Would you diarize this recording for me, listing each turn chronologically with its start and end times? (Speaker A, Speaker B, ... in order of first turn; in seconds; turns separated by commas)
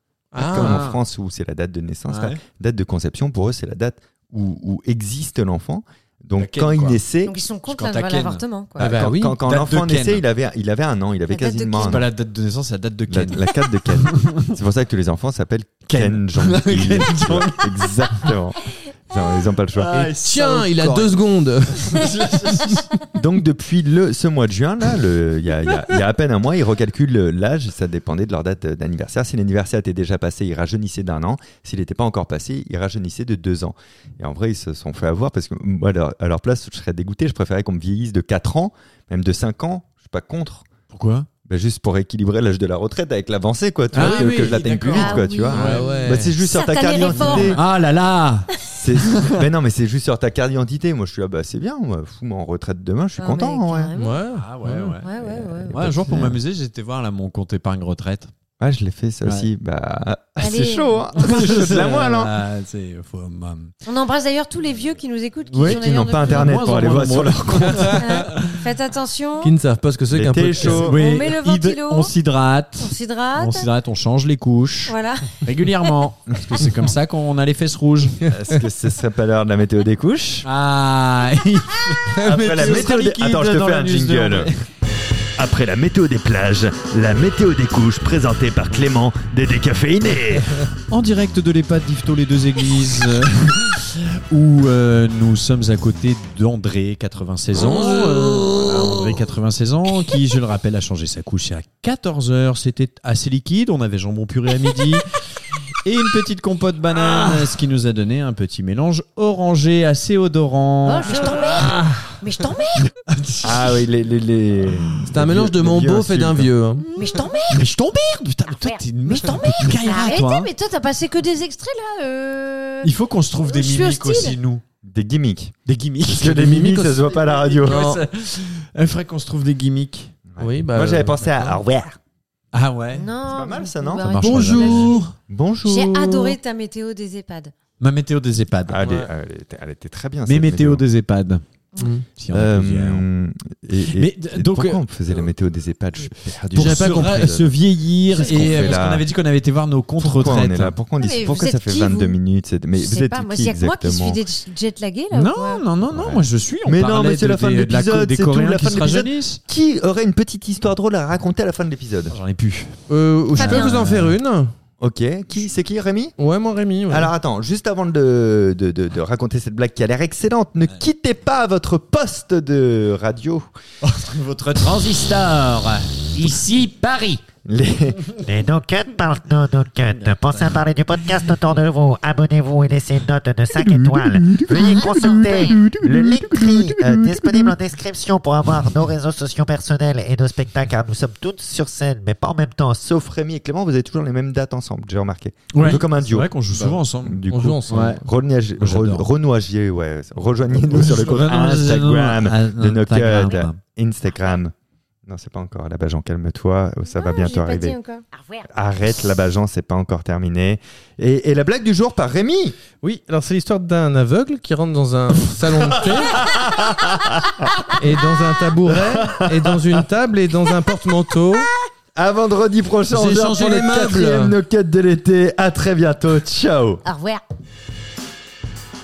Speaker A: 0.3-0.8, Speaker B: 0.3-7.4, Speaker C: 0.4-1.0, Speaker C: 2.1-2.4, Speaker C: 6.3-7.0, Speaker D: 7.2-8.9, Speaker C: 7.7-10.2, Speaker A: 8.8-9.4, Speaker B: 8.8-12.1, Speaker D: 11.3-12.0, Speaker C: 11.8-14.5, Speaker B: 13.1-20.1, Speaker C: 15.9-18.3, Speaker C: 19.8-21.1, Speaker A: 19.9-22.1, Speaker C: 21.8-22.9, Speaker B: 23.1-40.7, Speaker C: 40.9-41.3, Speaker B: 41.5-47.6, Speaker C: 43.9-45.9, Speaker A: 43.9-44.5, Speaker D: 44.9-47.6, Speaker A: 45.5-46.3, Speaker C: 47.0-48.5, Speaker B: 48.7-53.9, Speaker C: 49.0-49.5, Speaker D: 53.2-54.2, Speaker A: 54.0-55.0, Speaker C: 54.3-58.3, Speaker D: 55.0-56.0, Speaker B: 55.7-56.4, Speaker B: 58.6-62.4, Speaker D: 60.4-61.6, Speaker C: 61.2-63.7, Speaker D: 63.8-66.8, Speaker C: 65.5-68.6, Speaker B: 65.6-68.0, Speaker D: 68.0-69.5, Speaker A: 69.4-70.9, Speaker B: 70.1-71.0, Speaker C: 70.6-78.3, Speaker D: 70.7-72.2, Speaker D: 72.8-73.7, Speaker D: 74.9-76.0, Speaker B: 78.2-80.5, Speaker C: 80.4-84.6, Speaker A: 82.1-82.7, Speaker B: 82.2-84.5, Speaker B: 85.3-90.6, Speaker C: 90.9-105.2, Speaker C: 105.7-111.3, Speaker D: 110.8-112.9, Speaker C: 113.1-113.8, Speaker B: 113.4-116.5, Speaker A: 115.1-116.9, Speaker D: 116.9-117.7, Speaker C: 117.0-120.5, Speaker D: 118.5-122.9, Speaker C: 122.8-124.6, Speaker D: 123.4-124.4, Speaker B: 124.8-125.5, Speaker C: 125.7-126.5, Speaker B: 126.0-127.8, Speaker A: 126.2-128.0, Speaker C: 127.2-130.2, Speaker B: 130.3-132.0, Speaker A: 130.4-131.6, Speaker C: 132.5-133.1, Speaker D: 132.9-135.1, Speaker B: 133.3-134.6, Speaker C: 134.0-135.0, Speaker A: 134.2-135.1, Speaker B: 135.3-136.4, Speaker D: 135.6-137.5, Speaker C: 137.8-138.8, Speaker B: 138.7-140.9, Speaker A: 138.8-139.1, Speaker C: 140.3-141.4, Speaker A: 141.8-142.0, Speaker C: 142.1-143.0, Speaker B: 142.3-147.5, Speaker C: 143.8-145.3, Speaker C: 146.5-150.8, Speaker A: 146.5-147.3, Speaker B: 148.1-149.1, Speaker D: 148.1-148.8, Speaker B: 150.0-154.2, Speaker D: 151.0-152.2, Speaker D: 152.7-155.6, Speaker C: 155.1-159.4, Speaker B: 155.9-162.2, Speaker C: 162.1-162.8, Speaker A: 162.9-164.5, Speaker D: 163.3-163.9, Speaker C: 163.4-164.2, Speaker B: 164.8-166.1, Speaker A: 166.2-167.1, Speaker B: 166.9-173.4, Speaker C: 173.8-177.2, Speaker B: 177.4-178.0, Speaker E: 178.2-192.8, Speaker C: 179.8-180.6, Speaker B: 183.5-187.6, Speaker D: 185.0-185.6, Speaker B: 192.8-204.5, Speaker C: 195.5-198.0, Speaker A: 197.3-198.0, Speaker C: 198.6-199.1, Speaker C: 200.5-203.6, Speaker B: 205.1-207.8, Speaker D: 206.8-208.4, Speaker B: 208.4-212.6, Speaker A: 212.8-216.3, Speaker B: 215.7-217.4, Speaker A: 217.7-221.5, Speaker B: 218.7-219.8, Speaker B: 221.9-226.8, Speaker A: 222.9-224.3, Speaker D: 226.8-227.2